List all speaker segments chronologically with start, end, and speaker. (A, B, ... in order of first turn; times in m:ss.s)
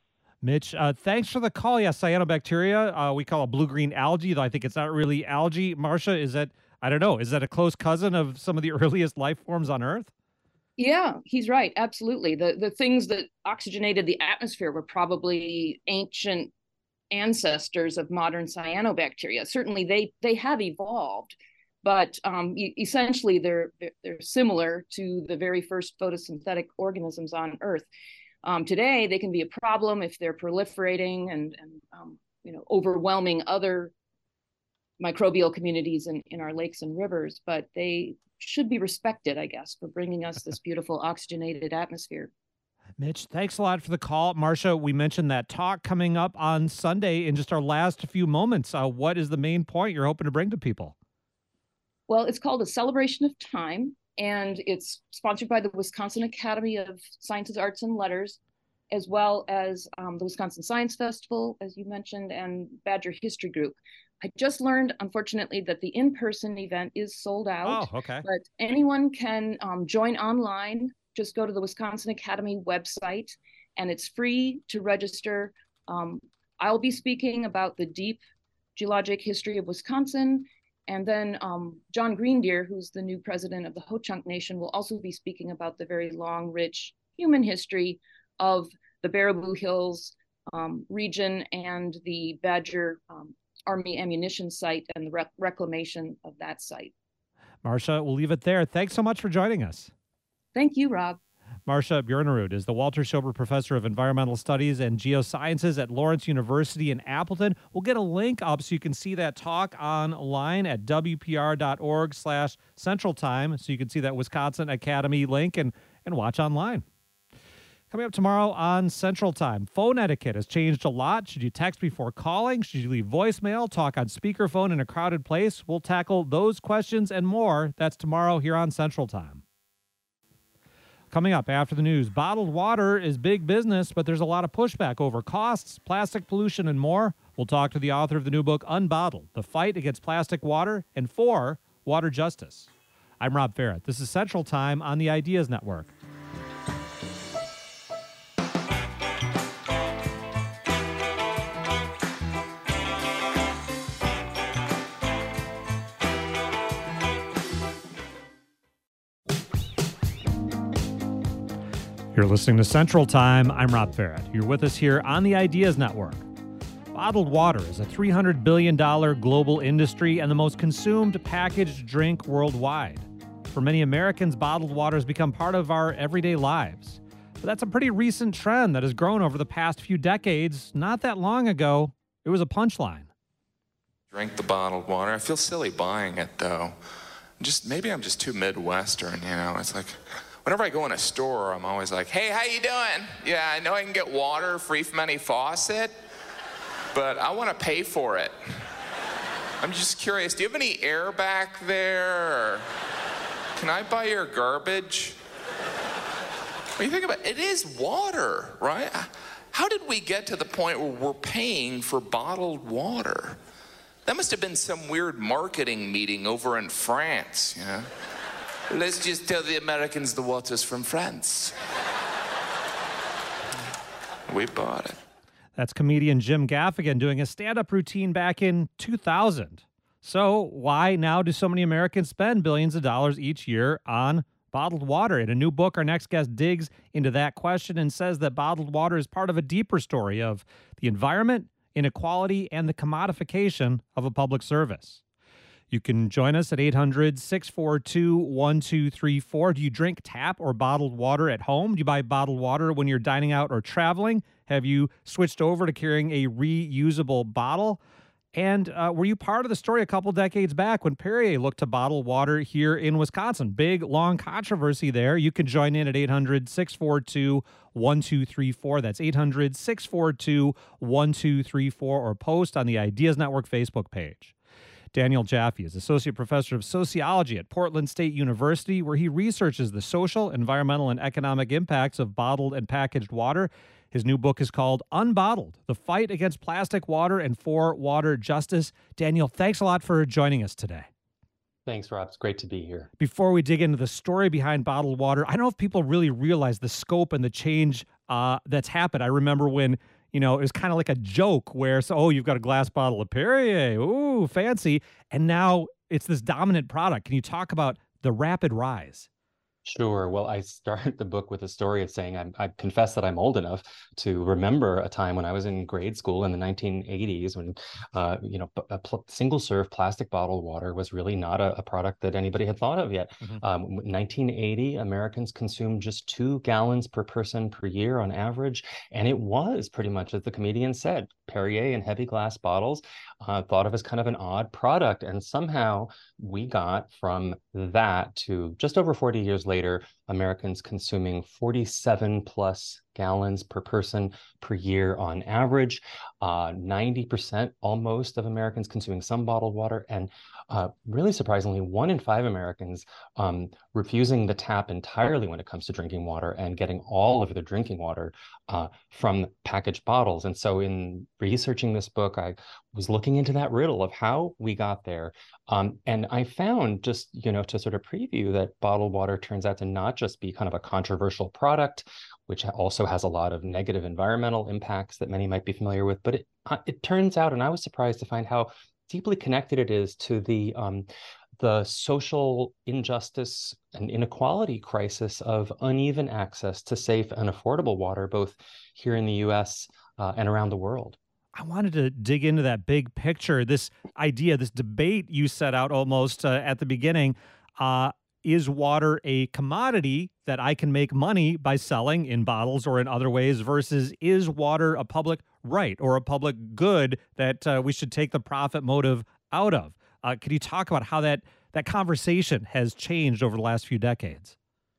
0:00.4-0:10.1 A
0:10.8-0:16.5 B
0:17.1-0:27.9 B
0:28.4-0:33.9 B
0:35.0-0:42.3 B
0:43.0-0:50.9 A
0:52.1-0:58.4 B
0:58.9-1:18.2 B
1:07.6-1:08.2 A
1:18.8-1:36.9 B
1:37.6-1:39.9 A
1:40.5-1:41.2 B
1:41.7-1:56.8 A
1:57.9-2:09.4 A
2:11.1-2:25.9 A
2:42.1-2:46.2 A
2:46.9-3:03.1 A
3:04.1-3:06.7 C
3:07.4-3:15.9 C
3:16.9-3:18.3 C
3:19.6-3:22.6 C
3:23.6-3:25.2 C
3:26.8-3:33.4 C
3:34.0-3:37.9 C
3:38.7-3:41.5 C
3:44.3-3:45.0 C
3:45.6-4:05.0 A
4:05.7-4:17.8 A
4:18.3-4:34.3 A
4:34.9-4:50.9 A
4:51.6-4:52.9 D
4:53.0-5:09.1 A
5:09.6-6:20.9 D
6:21.4-6:31.0 D
6:31.3-6:54.4 A